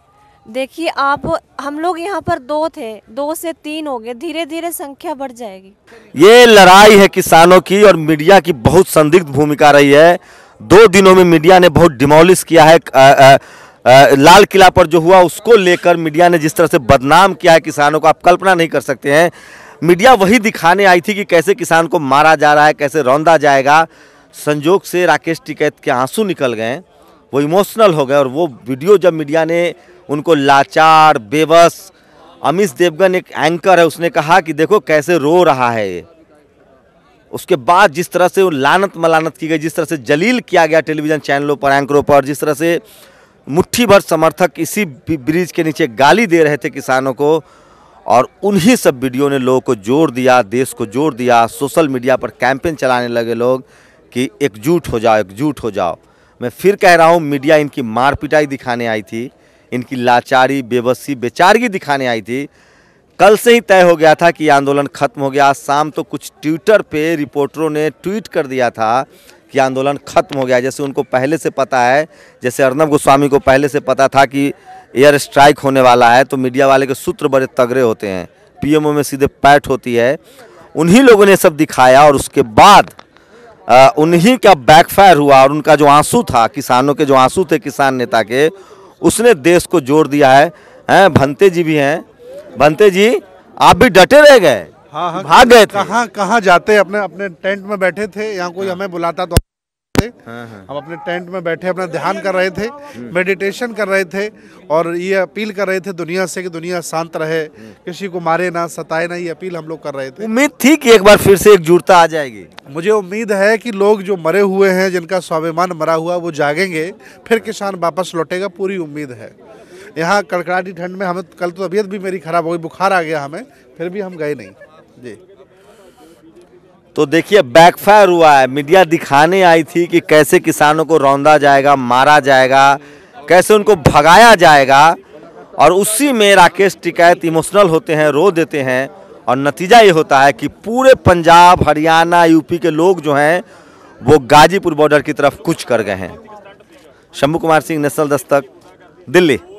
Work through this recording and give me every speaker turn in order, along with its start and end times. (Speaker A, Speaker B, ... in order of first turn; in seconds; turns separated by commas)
Speaker A: 0.5-5.7, Speaker B: 6.1-36.0, Speaker B: 37.3-42.8, Speaker B: 43.5-47.4, Speaker B: 48.1-62.5, Speaker B: 63.2-80.2, Speaker B: 80.8-83.0, Speaker B: 83.7-92.0, Speaker B: 92.6-95.9, Speaker C: 94.9-99.4, Speaker B: 100.3-100.6, Speaker C: 100.7-110.2, Speaker B: 110.2-112.5, Speaker C: 112.7-119.3, Speaker C: 120.0-125.2, Speaker B: 126.9-135.0, Speaker B: 135.6-143.4, Speaker B: 144.0-146.2, Speaker B: 147.1-148.5, Speaker B: 149.1-149.4